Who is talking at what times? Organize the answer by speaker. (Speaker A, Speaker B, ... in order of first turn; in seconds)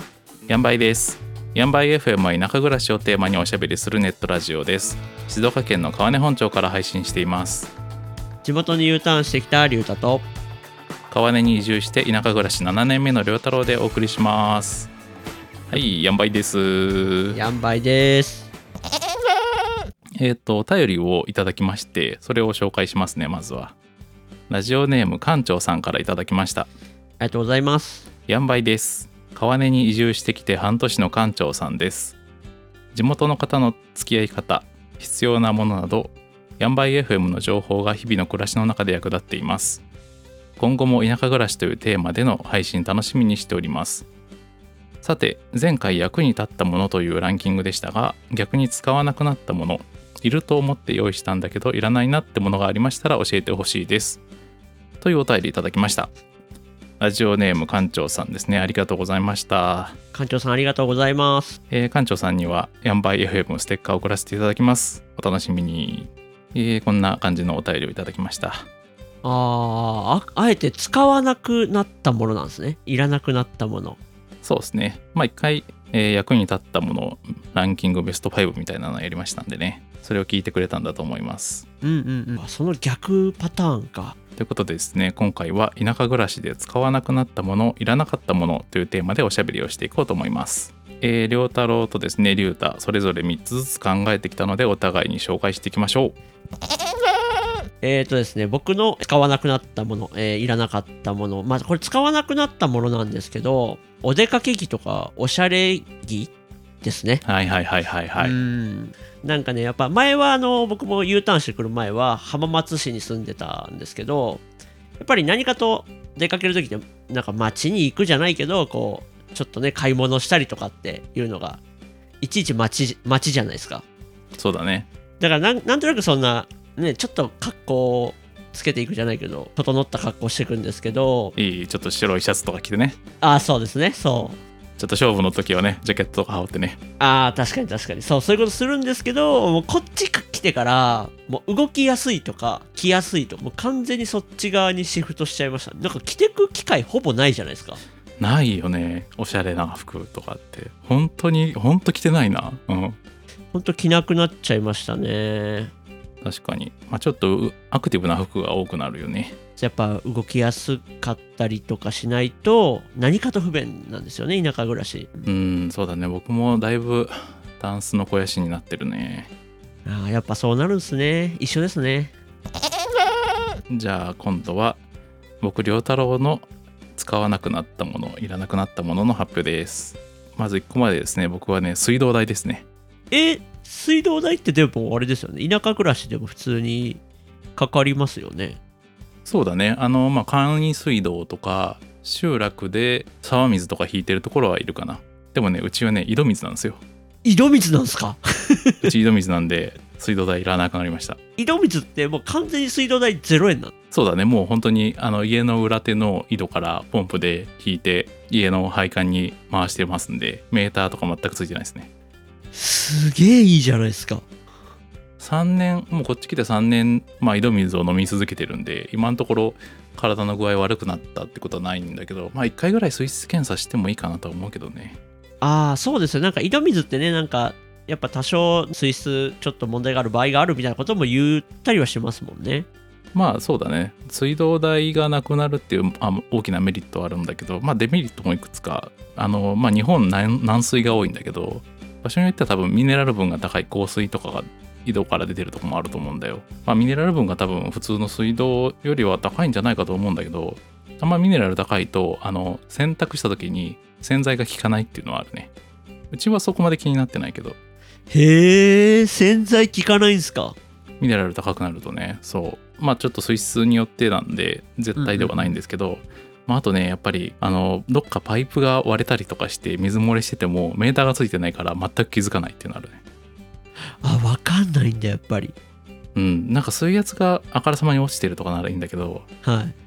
Speaker A: 0.5-7.7, 11.1-14.9, 15.7-17.4, 20.2-23.7, 24.5-26.7, 28.3-32.2, 32.9-39.8, 40.6-44.1, 45.0-54.2, 55.0-56.1, 57.0-60.0, 61.7-68.7, 74.4-81.7, 84.4-96.2, 107.2-108.3, 124.3-124.9, 131.3-133.0, 134.8-136.8, 148.2-153.0, 156.2-159.3, 165.2-169.3, 173.7-174.8, 175.4-182.6, 189.2-196.8, 198.8-201.2, 203.9-211.9, 215.2-225.0, 233.1-255.5, 256.1-257.6, 261.0-273.0, 276.1-279.2
Speaker B: 8.4-10.3, 17.3-18.5, 27.2-28.1, 60.1-61.6, 69.2-74.0, 81.8-84.2, 97.8-107.2, 108.2-114.4, 115.0-121.6, 122.2-123.8, 125.2-131.3, 133.2-134.4, 137.0-147.8, 153.5-155.7, 159.6-165.3, 169.8-172.1, 183.1-187.0, 187.6-188.6, 197.2-198.8, 201.4-203.7, 212.5-214.2, 225.4-232.7, 258.1-260.6, 264.9-265.6, 274.0-275.6, 279.4-279.7